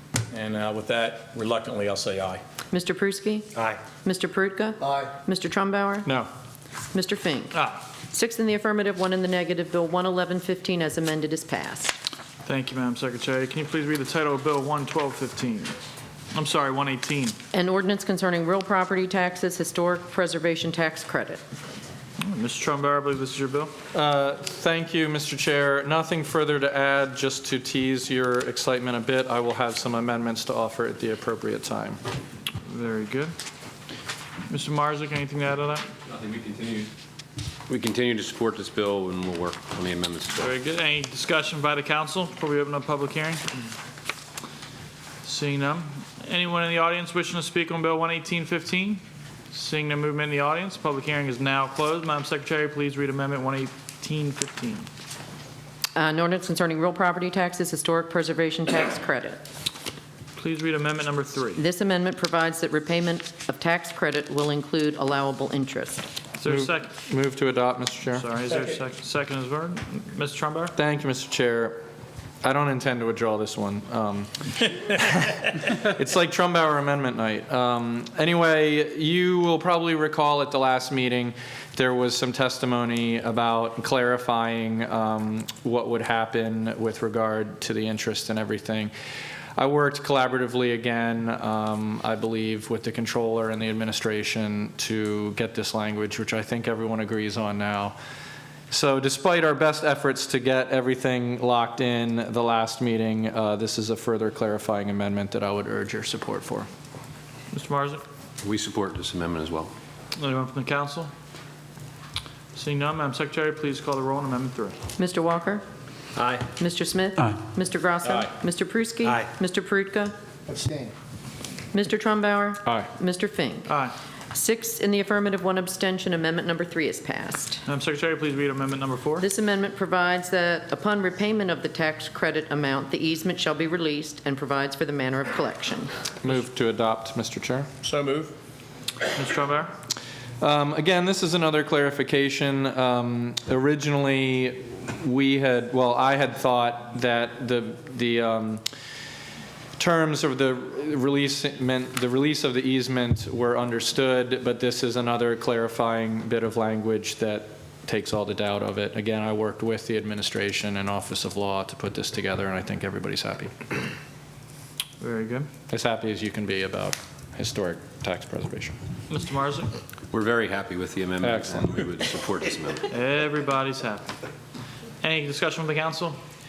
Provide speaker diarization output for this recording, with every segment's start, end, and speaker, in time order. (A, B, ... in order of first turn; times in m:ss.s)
0:00.3-0:02.4 A
0:02.7-0:03.5 B
0:04.0-0:06.1 B
0:04.8-0:05.1 A
0:06.9-0:07.6 B
0:08.1-0:12.0 B
0:12.4-0:15.7 C
0:16.3-0:17.4 C
0:17.5-0:21.4 B
0:22.2-0:23.7 C
0:23.9-0:32.0 D
0:32.6-0:33.3 C
0:34.5-0:35.9 C
0:37.7-0:40.5 E
0:40.4-0:43.5 C
0:45.2-0:54.9 C
0:56.0-0:59.4 B
1:00.4-1:01.6 C
1:01.6-1:06.1 B
1:06.4-1:06.9 C
1:06.4-1:08.3 D
1:08.1-1:10.7 C
1:10.8-1:11.8 D
1:12.4-1:28.9 D
1:29.6-1:38.0 D
1:38.7-1:46.7 D
1:47.5-1:48.0 C
1:48.4-1:49.7 E
1:50.2-1:51.1 C
1:52.5-1:54.8 C
1:55.0-1:55.6 B
1:56.6-2:00.1 B
2:00.5-2:00.8 A
2:01.7-2:03.7 B
2:04.3-2:07.6 B
2:07.7-2:09.2 C
2:09.2-2:15.9 B
2:16.2-2:17.7 D
2:17.8-2:18.3 A
2:19.1-2:19.7 C
2:20.4-2:28.6 D
2:29.8-2:43.5 D
2:45.0-2:45.5 C
2:45.7-2:48.8 D
2:49.1-2:49.7 C
2:50.1-2:52.9 E
2:51.2-2:51.7 D
2:52.9-2:54.1 C
2:55.0-2:56.2 C